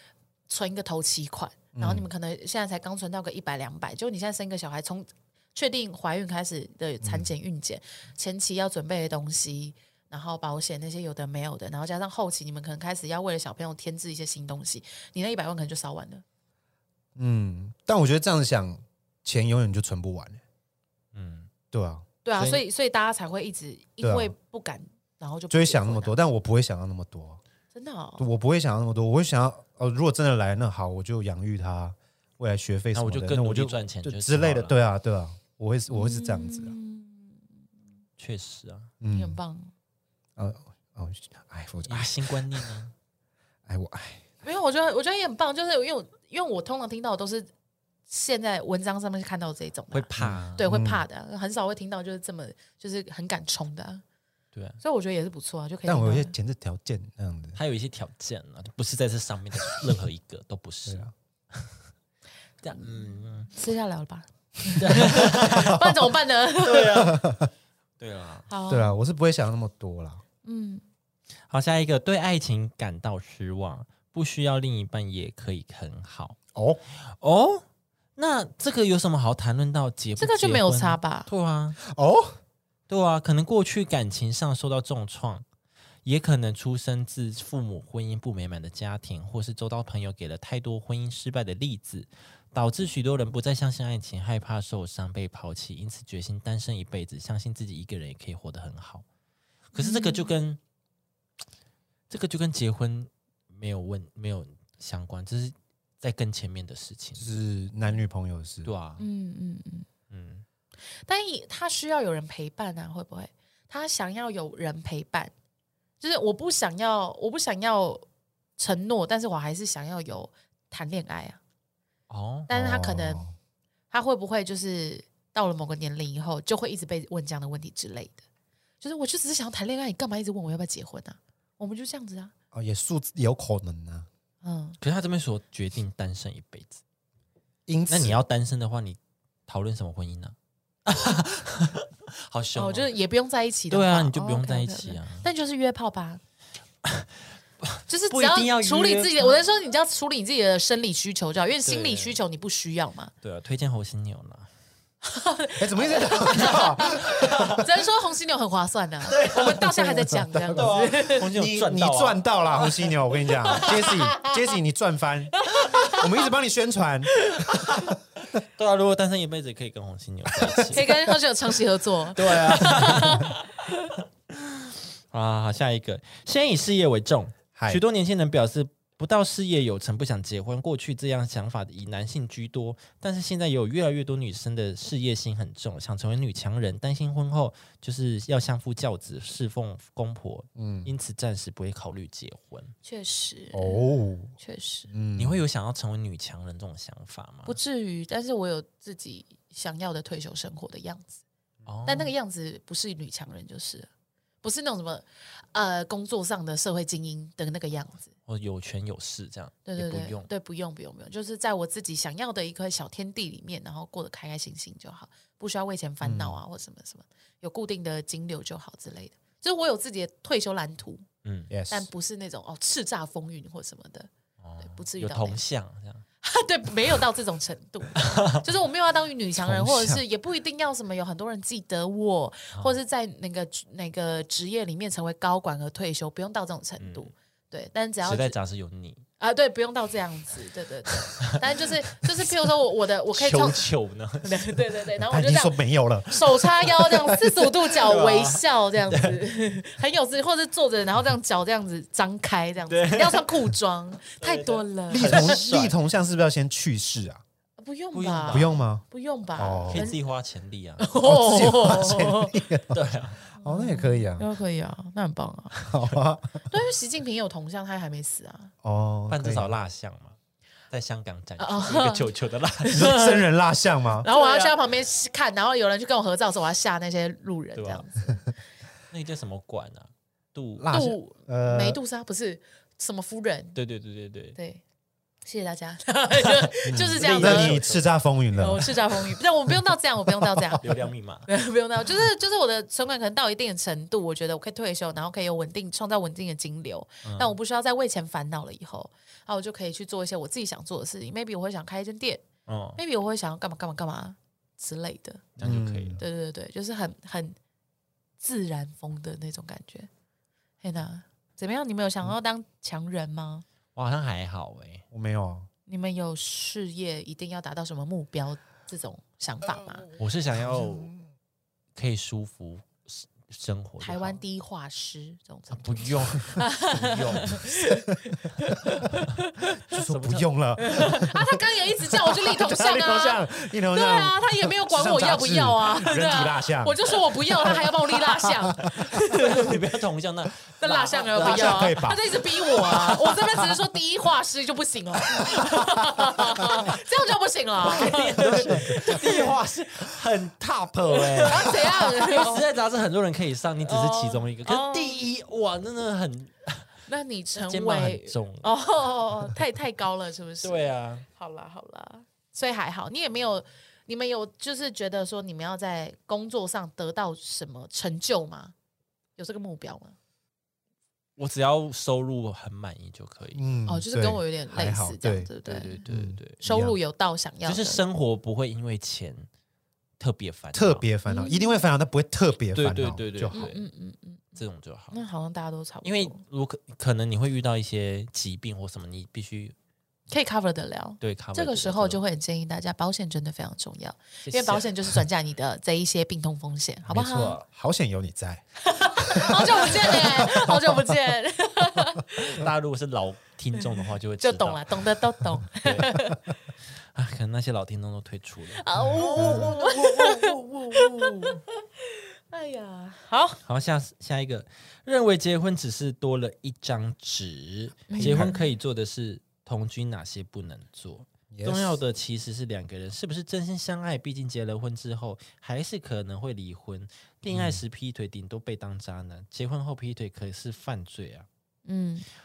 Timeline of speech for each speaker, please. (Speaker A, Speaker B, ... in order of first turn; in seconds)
Speaker A: 0.5-16.2, 22.2-26.1, 27.7-28.3, 35.9-37.4, 39.1-39.7, 44.4-47.5, 48.1-54.0, 54.8-56.3, 62.8-67.1, 68.5-69.0, 70.4-70.8, 80.2-81.3, 99.8-100.3, 109.0-109.8, 110.9-115.3, 116.0-118.0, 118.6-121.4, 122.5-123.2, 123.9-128.2, 128.8-132.3, 134.4-134.8, 142.5-146.2, 147.9-153.1, 155.0-161.3, 163.4-164.5, 165.4-166.3, 167.3-167.5, 170.7-173.9, 192.8-194.9, 197.4-201.2, 201.9-203.9, 204.4-208.1, 209.7-221.0, 221.7-224.1, 224.6-225.4, 226.2-238.3, 239.2-243.7, 244.2-255.4, 257.6-260.0, 260.8-262.3, 263.4-265.6, 266.5-268.5, 271.4-272.1, 272.6-273.2, 274.0-278.3, 280.7-283.6, 284.4-284.6, 285.2-287.6, 288.4-302.2, 302.8-305.3, 306.0-307.4, 308.2-309.9, 310.6-313.4, 315.7-319.9, 323.8-329.5, 330.6-339.6, 340.6-349.3, 351.0-352.4, 353.6-355.0, 356.9-368.5, 369.2-369.9, 373.7-375.8, 376.4-377.8, 381.1-381.6, 383.3-384.4, 384.9-386.2, 390.1-397.4, 398.6-402.4, 403.6-406.2, 408.5-413.4, 417.9-418.5, 431.6-432.1
Speaker B: 1.7-2.1, 7.0-7.3, 17.1-20.4, 21.7-22.1, 24.0-24.3, 25.5-27.4, 28.2-36.7, 39.0-39.4, 40.4-42.7, 43.6-44.2, 50.2-51.0, 55.9-57.6, 60.9-61.1, 64.9-66.0, 67.0-67.5, 68.7-70.2, 76.5-76.8, 81.8-82.4, 107.2-108.7, 122.5-123.3, 132.5-134.1, 137.7-138.2, 155.6-157.5, 159.6-160.8, 161.3-167.8, 177.5-177.8, 190.6-190.9, 193.5-194.3, 194.9-195.4, 216.0-216.4, 221.5-221.9, 229.4-230.0, 245.0-247.5, 254.9-257.2, 258.3-258.8, 259.4-259.9, 261.0-262.8, 263.4-264.3, 265.6-266.5, 268.6-269.5, 272.7-274.1, 280.6-281.8, 286.7-288.7, 290.2-290.6, 305.4-306.0, 314.9-315.5, 320.4-320.9, 329.7-331.4, 331.9-338.6, 341.1-342.1, 348.3-348.6, 373.3-375.3, 375.9-376.8, 380.5-383.4, 396.9-398.4, 399.0-400.9, 408.8-410.0, 417.9-418.4, 421.3-421.8, 427.3-427.6
Speaker C: 21.1-21.5, 22.4-22.6, 32.9-34.8, 38.2-38.9, 41.8-42.9, 49.9-50.7, 54.5-54.8, 57.5-61.8, 62.6-63.5, 64.8-65.8, 66.6-67.2, 68.0-68.5, 71.5-76.4, 77.0-77.6, 78.2-81.8, 82.9-85.4, 86.0-99.0, 99.7-100.6, 102.1-107.3, 108.6-109.0, 110.1-110.4, 122.1-122.5, 134.8-136.8, 137.9-142.9, 143.7-145.3, 146.8-149.4, 151.6-152.2, 153.2-154.5, 156.9-157.6, 159.1-159.7, 160.5-162.7, 167.5-170.9, 172.1-173.5, 174.3-192.7, 195.2-197.6, 201.6-202.1, 208.2-210.3, 221.2-221.5, 224.4-226.0, 228.0-228.4, 236.8-237.1, 238.0-239.0, 241.2-242.1, 243.1-244.6, 247.8-249.2, 252.7-253.3, 254.2-255.7, 257.9-258.6, 259.7-260.9, 262.7-263.2, 269.1-270.2, 270.7-272.9, 274.0-274.6, 277.5-277.8, 278.9-280.7, 283.5-284.4, 286.2-288.7, 290.6-291.3, 297.0-297.3, 302.5-302.8, 305.4-306.0, 313.7-314.8, 319.9-320.9, 321.8-324.2, 325.5-327.4, 329.7-330.8, 338.6-343.5, 346.3-346.8, 347.6-356.7, 357.3-358.5, 360.4-361.1, 371.2-373.5, 375.4-376.4, 377.4-379.3, 380.0-380.9, 382.5-383.6, 384.3-385.0, 385.8-389.6, 391.0-392.0, 394.2-394.8, 396.9-397.4, 402.1-404.8, 405.6-405.9, 406.8-411.4, 413.4-431.3